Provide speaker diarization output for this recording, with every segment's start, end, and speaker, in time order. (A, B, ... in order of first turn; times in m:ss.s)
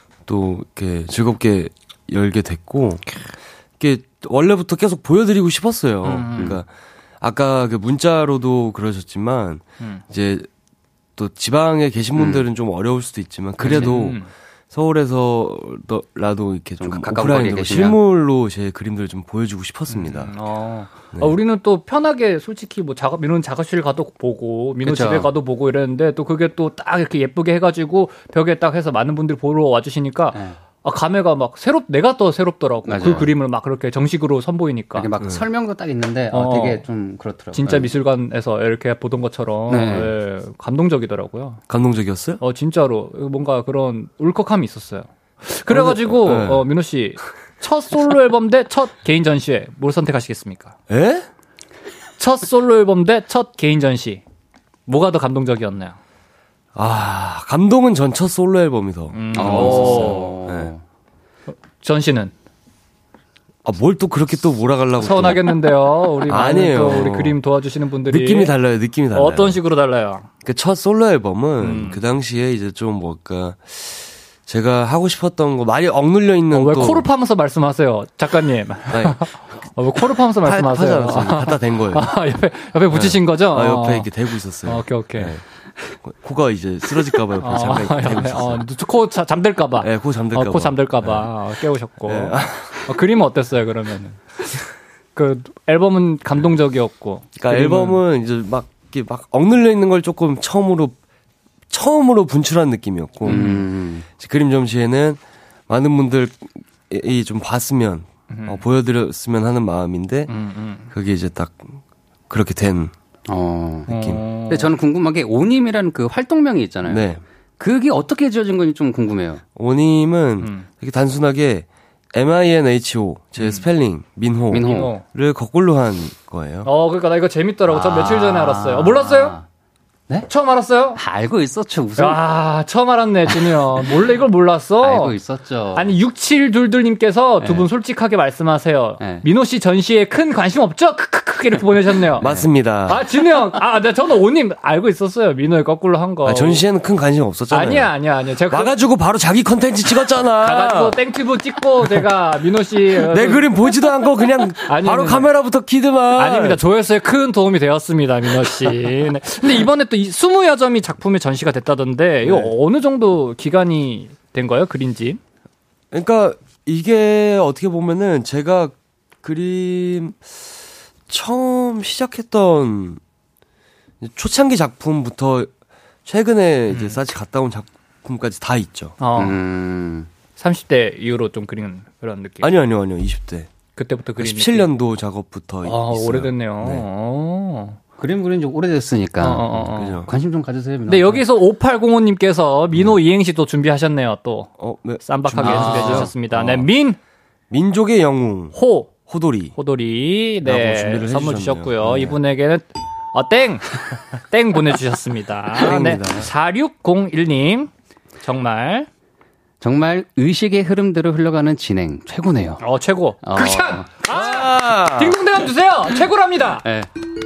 0:00.2-0:03.1 A
0:03.8-0:06.7 A
0:06.0-0:06.6 B
0:07.2-0:10.5 A
0:11.2-0:20.3 A
0:12.2-0:12.4 C
0:13.6-0:14.3 B
0:13.6-0:14.0 C
0:16.8-0:18.0 C
0:19.9-0:35.1 B
0:24.8-0:25.3 C
0:30.3-0:30.6 C
0:32.8-0:33.3 C
0:34.9-0:37.9 C
0:36.3-0:36.8 B
0:37.5-0:41.6 B
0:39.7-0:40.1 C
0:41.7-0:42.4 A
0:42.4-0:50.7 B
0:45.7-0:46.7 A
0:50.9-0:51.3 A
0:52.2-0:54.2 B
0:54.9-0:56.0 B
0:56.7-1:00.7 A
0:59.1-1:00.4 B
0:59.3-1:00.8 C
1:01.5-1:02.3 B
1:03.6-1:05.6 A
1:05.0-1:08.5 B
1:06.2-1:07.4 A
1:08.1-1:09.6 A
1:09.1-1:10.3 B
1:10.4-1:17.1 A
1:11.6-1:12.0 B
1:16.5-1:24.1 B
1:18.9-1:19.7 A
1:20.4-1:22.1 A
1:22.9-1:25.4 A
1:24.6-1:25.3 B
1:26.0-1:28.6 A
1:27.4-1:34.6 B
1:29.8-1:31.3 A
1:32.0-1:32.9 A
1:35.1-1:38.0 B
1:37.4-1:41.0 A
1:41.7-1:50.3 A
1:43.2-1:44.0 C
1:43.2-1:43.6 B
1:48.3-1:48.6 B
1:50.3-1:50.9 B
1:50.9-1:51.8 A
1:52.3-1:52.9 A
1:53.3-1:53.9 C
1:53.9-1:54.7 B
1:53.9-1:54.2 A
1:54.4-1:57.0 C
1:56.8-1:57.2 A
1:57.6-1:59.4 C
1:59.6-2:06.7 A
2:00.4-2:00.7 B
2:03.4-2:03.6 B
2:04.5-2:04.9 C
2:04.6-2:05.0 B
2:06.6-2:09.4 B
2:07.7-2:09.4 C
2:10.3-2:11.0 B
2:11.0-2:12.2 C
2:12.0-2:15.1 B
2:13.3-2:13.9 C
2:14.8-2:15.9 C
2:15.7-2:22.2 B
2:17.4-2:17.7 C
2:19.0-2:19.2 C
2:22.2-2:23.0 A
2:22.2-2:22.5 C
2:22.8-2:26.6 B
2:26.2-2:27.9 A
2:27.5-2:28.8 B
2:28.5-2:31.0 A
2:30.4-2:33.5 B
2:33.0-2:36.6 A
2:34.6-2:35.3 B
2:36.1-2:45.2 B
2:42.2-2:42.5 A
2:45.9-2:50.4 A
2:51.1-2:53.0 A
2:54.0-2:55.5 A
2:56.0-2:59.0 A
2:56.7-2:57.0 B
2:59.0-2:59.4 B
2:59.2-3:00.1 C
3:00.4-3:02.5 B
3:02.4-3:03.5 A
3:03.8-3:04.7 B
3:04.2-3:06.8 A
3:05.6-3:07.8 B
3:08.0-3:11.2 C
3:09.2-3:10.0 B
3:09.7-3:10.1 A
3:10.9-3:17.0 B
3:14.6-3:16.6 A
3:15.4-3:16.2 C
3:17.5-3:19.5 A
3:18.5-3:18.9 B
3:19.5-3:27.7 B
3:20.4-3:22.2 A
3:25.6-3:26.3 A
3:28.2-3:28.9 B
3:29.6-3:32.6 C
3:32.6-3:36.6 B
3:33.2-3:33.9 C
3:34.1-3:35.2 A